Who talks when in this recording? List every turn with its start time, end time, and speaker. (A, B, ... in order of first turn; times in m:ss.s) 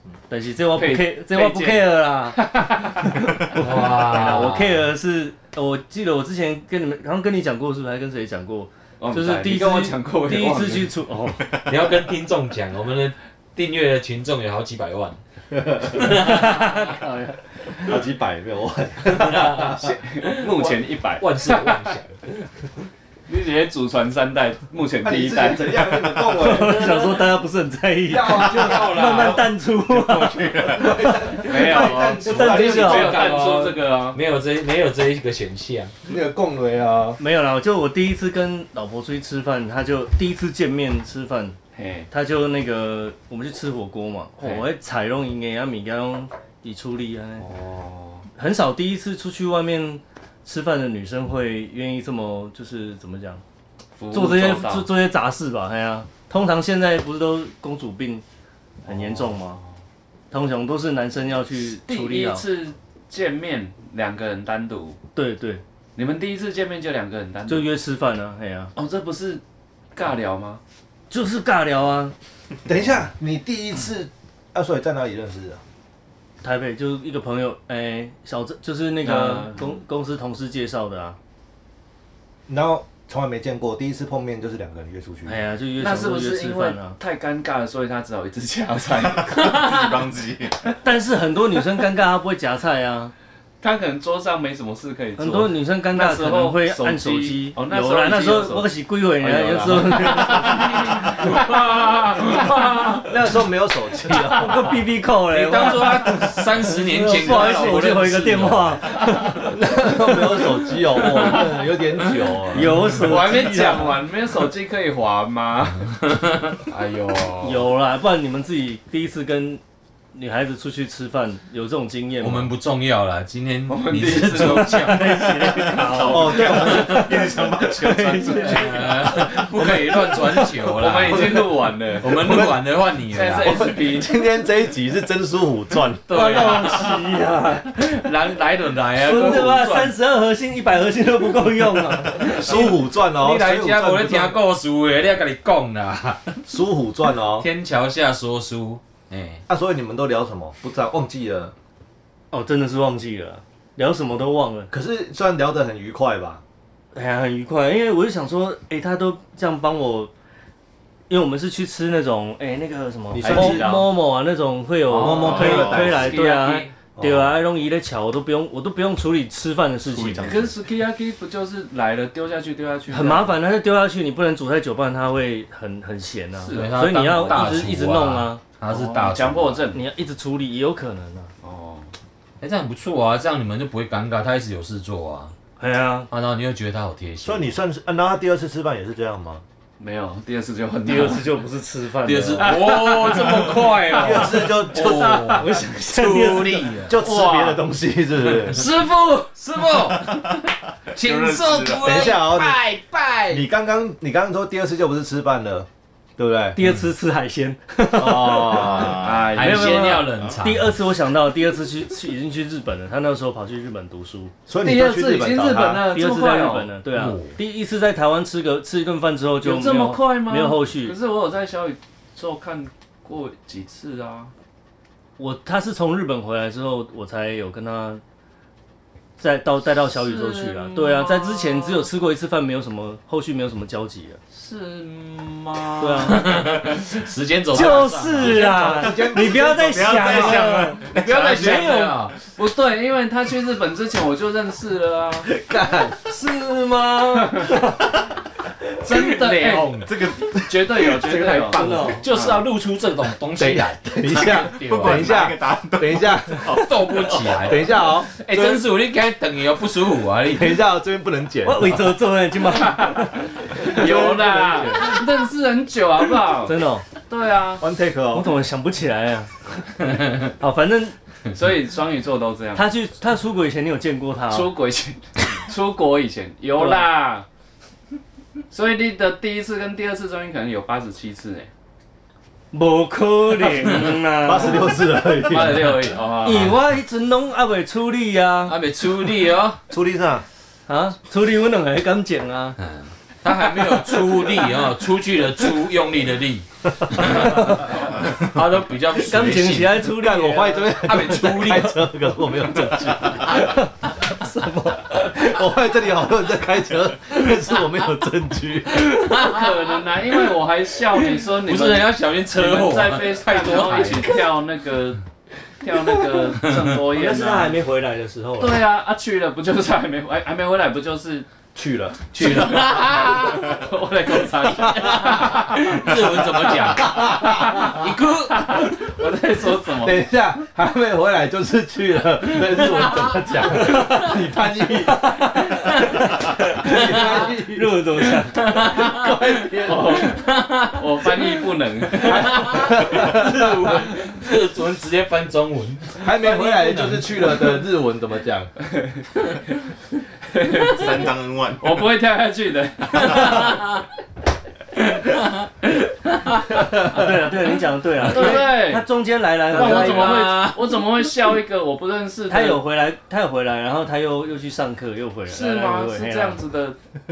0:00.3-0:02.4 A
0:00.7-0:03.3 B
0:03.1-0:11.5 A
0:03.5-0:04.9 C
0:09.0-0:10.9 B
0:11.6-0:15.2 C
0:15.8-0:16.9 C
0:16.0-0:17.3 A
0:17.7-0:20.0 D
0:19.1-0:22.4 C
0:19.8-0:22.0 B
0:23.3-0:25.8 B
0:25.0-0:27.0 D
0:26.2-0:31.5 A
0:26.4-0:27.3 C
0:28.0-0:29.3 D
0:28.3-0:29.5 C
0:29.9-0:31.2 E
0:30.8-0:33.2 D
0:31.4-0:34.2 B
0:31.5-0:35.9 C
0:32.2-0:33.1 A
0:36.0-0:37.2 D
0:37.2-0:41.6 A
0:41.7-0:42.1 B
0:42.1-0:47.5 A
0:44.4-0:44.6 B
0:47.4-0:48.2 B
0:48.3-0:53.4 A
0:54.0-0:54.9 B
0:54.1-0:58.2 A
0:58.8-0:59.6 A
1:00.3-1:02.4 A
1:01.8-1:05.0 B
1:05.1-1:05.6 A
1:06.0-1:07.7 B
1:07.5-1:08.7 A
1:08.7-1:09.4 B
1:09.9-1:10.6 B
1:11.1-1:12.1 A
1:12.6-1:15.6 D
1:16.4-1:21.2 A
1:19.0-1:19.8 B
1:22.5-1:25.4 D
1:25.2-1:27.0 A
1:25.8-1:29.9 B
1:29.0-1:30.6 E
1:30.8-1:33.1 A
1:33.6-1:38.7 B
1:35.2-1:40.8 A
1:39.2-1:40.0 D
1:39.5-1:43.1 B
1:40.8-1:42.3 C
1:43.0-1:44.8 D
1:44.3-1:49.9 A
1:45.3-1:48.8 C
1:49.4-1:53.0 D
1:52.5-1:53.9 A
1:52.9-1:55.9 B
1:55.9-1:56.6 C
1:56.7-1:57.7 B
1:57.4-1:59.6 A
2:00.1-2:02.5 A
2:02.2-2:05.8 C
2:03.7-2:05.2 B
2:04.6-2:08.8 A
2:05.8-2:08.8 E
2:06.0-2:07.2 D
2:07.9-2:09.0 B
2:08.4-2:13.7 C
2:09.6-2:11.4 D
2:10.6-2:12.4 B
2:12.0-2:12.6 D
2:13.1-2:14.2 B
2:13.4-2:16.4 D
2:16.1-2:17.0 C
2:16.1-2:17.7 A
2:17.7-2:19.9 C
2:19.0-2:22.4 A
2:22.0-2:26.4 C
2:22.2-2:24.4 D
2:26.5-2:27.5 D
2:27.4-2:29.4 C
2:29.5-2:31.5 D
2:32.3-2:34.7 A
2:34.7-2:36.4 D
2:36.9-2:40.1 A
2:41.1-2:50.5 A
2:43.1-2:43.9 D
2:43.2-2:43.8 B
2:44.9-2:46.0 B
2:45.0-2:46.1 D
2:45.0-2:46.7 C
2:45.3-2:46.1 E
2:47.0-2:47.4 D
2:49.8-2:50.6 E
2:50.2-2:53.4 B
2:52.9-2:58.4 A
2:56.4-2:57.7 B
2:56.5-2:59.6 C
2:58.6-2:59.8 B
2:59.7-3:01.3 A
3:01.4-3:01.9 B
3:02.4-3:05.3 C
3:05.6-3:06.1 A
3:06.1-3:07.5 C
3:07.2-3:09.4 D
3:09.8-3:11.3 B
3:10.8-3:12.9 A
3:12.0-3:17.0 C
3:12.4-3:14.4 B
3:13.9-3:15.4 D
3:15.1-3:16.8 A
3:16.8-3:18.7 D
3:17.0-3:17.6 B
3:18.4-3:19.3 B
3:19.3-3:20.4 C
3:20.0-3:22.1 E
3:20.9-3:23.4 C
3:21.8-3:22.6 D
3:23.3-3:26.6 D
3:26.5-3:34.3 A
3:27.9-3:29.0 D
3:28.5-3:29.4 E
3:29.0-3:30.0 B
3:29.2-3:30.7 C
3:34.5-3:35.9 D
3:34.6-3:36.7 B
3:35.9-3:41.0 A
3:36.9-3:37.4 C
3:39.4-3:44.3 B
3:45.2-3:48.0 A
3:49.2-3:54.2 A
3:49.9-3:51.9 B
3:54.3-3:56.4 B
3:55.8-3:56.4 A
3:56.0-3:58.9 C
3:57.5-4:00.8 A
3:58.2-4:00.4 D
3:58.9-4:01.7 E
4:00.8-4:02.2 C
4:00.9-4:05.3 B
4:05.2-4:06.0 D
4:06.0-4:08.0 A
4:08.8-4:12.4 B
4:08.9-4:09.9 C
4:09.9-4:10.4 E
4:11.1-4:12.0 A
4:11.6-4:15.3 C
4:13.3-4:16.6 D
4:14.5-4:17.5 E
4:16.5-4:20.6 C
4:17.4-4:18.1 D
4:18.2-4:18.6 B
4:20.2-4:21.9 D
4:21.4-4:24.9 A
4:22.5-4:27.6 B
4:23.6-4:24.9 D
4:26.4-4:26.8 A
4:27.6-4:28.3 D
4:28.1-4:29.5 A
4:30.2-4:30.9 A
4:31.3-4:32.7 B
4:32.5-4:34.5 A
4:34.3-4:37.2 B
4:36.6-4:36.9 A
4:38.5-4:41.5 B
4:42.5-4:44.8 A
4:43.6-4:43.9 C
4:44.2-4:45.8 D
4:45.2-4:46.6 B
4:46.2-4:48.6 A
4:46.3-4:46.5 C
4:48.5-4:49.6 C
4:49.7-4:50.2 D
4:50.7-4:52.6 A
4:52.6-4:59.9 C
4:57.0-4:57.3 D
4:58.9-5:00.8 A
4:59.8-5:03.5 D
5:00.8-5:01.8 C
5:03.3-5:04.9 A
5:04.8-5:09.0 D
5:08.7-5:09.7 C
5:09.1-5:15.0 B
5:11.3-5:14.2 C
5:15.6-5:17.6 B
5:16.9-5:18.6 A
5:18.4-5:21.3 B
5:21.5-5:22.6 D
5:22.1-5:23.5 C
5:22.2-5:30.0 B
5:24.5-5:25.1 D
5:24.7-5:28.7 C
5:26.7-5:27.9 D
5:29.8-5:37.8 D
5:35.1-5:35.8 A
5:35.5-5:37.2 C
5:36.6-5:38.4 A
5:38.3-5:47.6 C
5:38.4-5:40.1 D
5:39.6-5:42.7 B
5:42.0-5:43.9 D
5:46.0-5:48.5 D
5:50.3-5:51.1 B
5:50.6-5:51.9 E
5:51.6-5:53.6 B
5:52.9-5:53.8 C
5:54.7-5:57.0 C
5:56.8-6:00.2 A
5:58.0-5:58.9 B
5:58.0-5:58.4 C
5:59.5-6:02.6 B
5:59.5-6:00.8 C
6:02.3-6:06.4 A
6:05.3-6:06.8 B